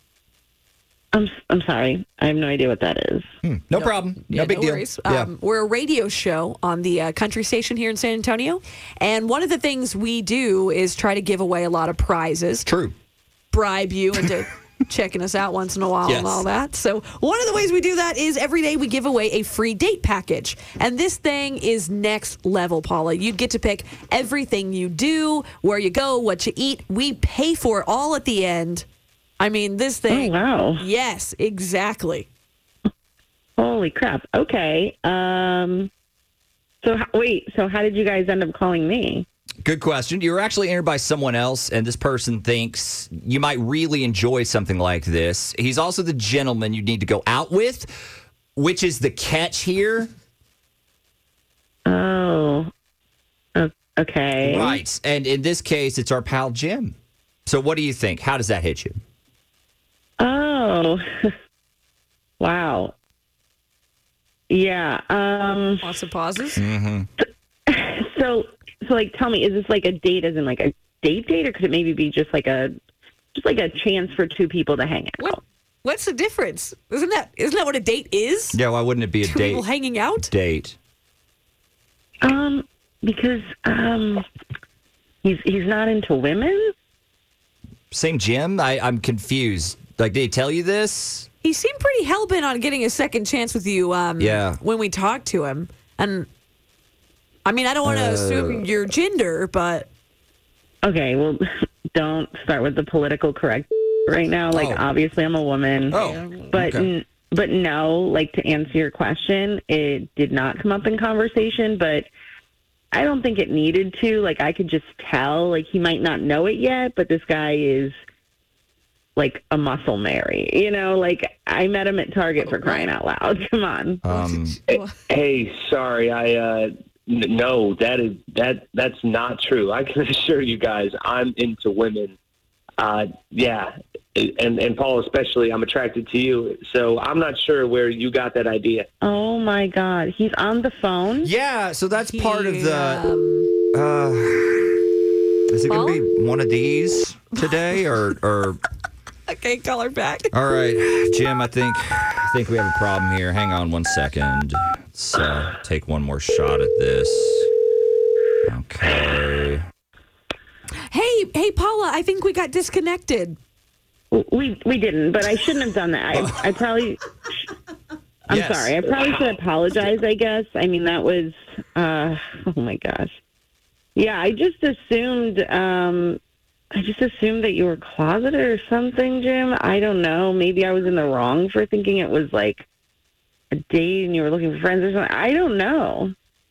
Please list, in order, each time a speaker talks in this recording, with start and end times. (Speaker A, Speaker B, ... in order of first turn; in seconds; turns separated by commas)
Speaker A: 1.1-3.2, Speaker B: 3.4-5.3, Speaker C: 3.7-12.7, Speaker B: 12.7-12.9, Speaker C: 13.5-28.8, Speaker B: 16.0-16.4, Speaker C: 29.4-32.3, Speaker A: 30.1-30.8, Speaker A: 33.6-35.9, Speaker A: 36.8-39.2, Speaker B: 39.6-47.9, Speaker B: 48.5-50.1, Speaker A: 51.9-52.7, Speaker A: 53.5-54.8, Speaker B: 54.5-56.9, Speaker B: 57.5-59.0, Speaker A: 60.2-61.3, Speaker A: 62.4-62.9, Speaker A: 64.5-65.9, Speaker C: 65.8-66.6, Speaker B: 66.6-67.1, Speaker A: 67.7-72.7, Speaker A: 73.3-75.4, Speaker C: 75.2-78.6, Speaker B: 78.5-80.8, Speaker C: 79.2-80.3, Speaker A: 82.2-84.2, Speaker A: 85.2-86.7, Speaker B: 87.9-91.3, Speaker C: 91.4-96.3, Speaker B: 94.2-94.6, Speaker C: 97.4-99.9, Speaker B: 97.8-98.7, Speaker A: 100.8-101.4, Speaker A: 101.9-112.1, Speaker B: 104.5-104.8, Speaker B: 105.9-106.9, Speaker A: 112.9-118.0, Speaker A: 119.2-124.0, Speaker C: 122.4-122.8, Speaker B: 124.0-124.6, Speaker C: 124.1-124.9, Speaker D: 124.7-132.2, Speaker D: 132.8-138.9, Speaker A: 139.0-141.3, Speaker B: 141.3-143.0, Speaker C: 142.1-143.5, Speaker B: 143.7-144.8, Speaker B: 145.5-148.6, Speaker C: 145.7-146.0, Speaker C: 147.3-147.8, Speaker C: 149.3-150.3, Speaker B: 150.3-157.5, Speaker B: 158.4-159.6, Speaker C: 160.9-163.4, Speaker A: 164.1-167.0, Speaker B: 166.2-166.5, Speaker A: 168.3-173.1, Speaker B: 168.3-168.8, Speaker D: 168.9-169.4, Speaker A: 173.9-176.2, Speaker A: 176.7-182.6, Speaker A: 183.5-186.1